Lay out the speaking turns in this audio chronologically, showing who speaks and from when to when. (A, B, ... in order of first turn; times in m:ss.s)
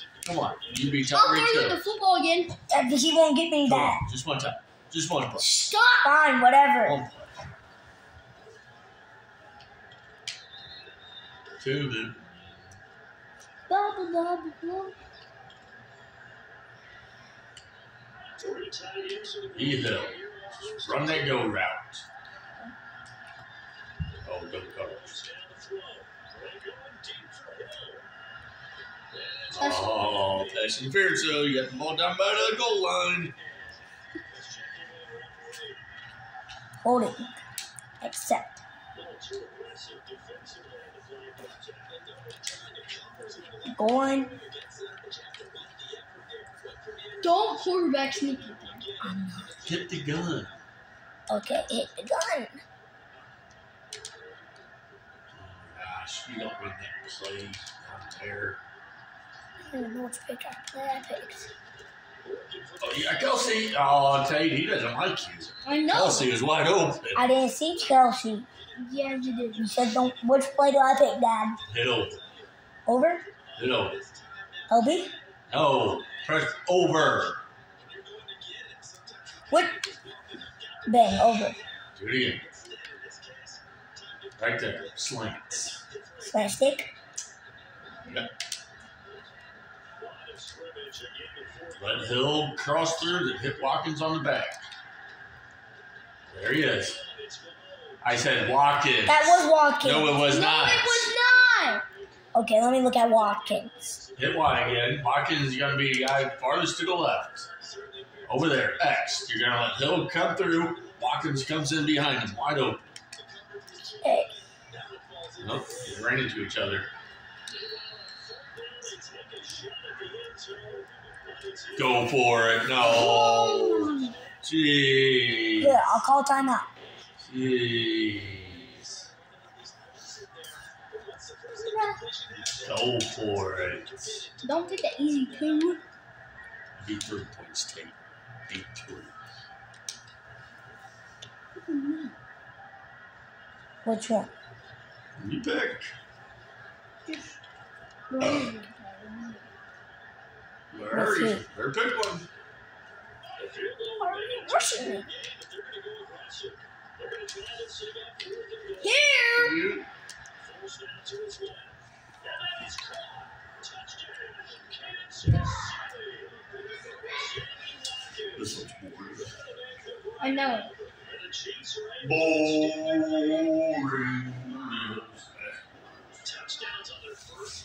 0:00.2-0:01.8 A
0:01.1-0:02.5 B
0:02.7-0:04.0 C
0:03.6-0:05.7 A
0:05.4-0:06.2 B
0:06.0-0:07.0 C
0:06.8-0:07.3 A
0:11.6-0:12.5 A
0:13.7-0:14.9 B
0:19.5-0:20.2 A
0:20.7-0:22.0 A
0:24.2-0:25.2 A
0:29.5-0:33.3 A
0:29.6-0:29.9 B
0:36.8-0:37.3 C
0:38.0-0:38.6 C
0:43.6-0:44.4 C
0:47.2-0:48.8 B
0:49.0-0:49.5 C
0:49.6-0:50.6 A
0:51.3-0:52.6 C
0:55.3-0:58.6 A
0:59.6-1:01.5 C
1:02.8-1:07.2 A
1:05.6-1:06.3 B
1:07.1-1:08.5 C
1:08.8-1:09.7 B
1:09.6-1:11.6 C
1:11.7-1:12.2 A
1:12.8-1:13.2 C
1:13.6-1:14.0 A
1:14.7-1:15.2 C
1:15.5-1:17.4 A
1:19.5-1:19.8 C
1:20.8-1:21.6 C
1:21.9-1:22.4 A
1:24.4-1:25.8 A
1:26.2-1:26.9 C
1:28.0-1:28.3 A
1:31.7-1:34.6 A
1:36.3-1:37.0 A
1:38.0-1:41.1 A
1:39.1-1:40.2 C
1:40.2-1:41.8 B
1:42.3-1:44.0 C
1:44.2-1:47.5 A
1:48.2-1:52.8 A
1:54.0-1:54.3 C
1:55.4-1:56.9 A
2:01.8-2:05.8 A
2:02.8-2:04.1 B
2:05.6-2:06.7 C
2:07.2-2:08.8 A
2:11.6-2:12.0 B
2:12.6-2:14.3 A
2:14.4-2:15.8 B
2:16.8-2:17.9 A
2:18.5-2:19.1 A
2:21.6-2:22.1 B
2:23.8-2:24.3 C
2:25.2-2:25.9 A
2:28.1-2:29.4 B
2:30.7-2:32.2 A
2:30.9-2:31.4 C
2:34.0-2:35.1 C
2:38.8-2:39.7 B
2:39.3-2:39.8 A
2:48.3-2:49.4 A
2:50.2-2:50.7 B
2:52.0-2:56.3 A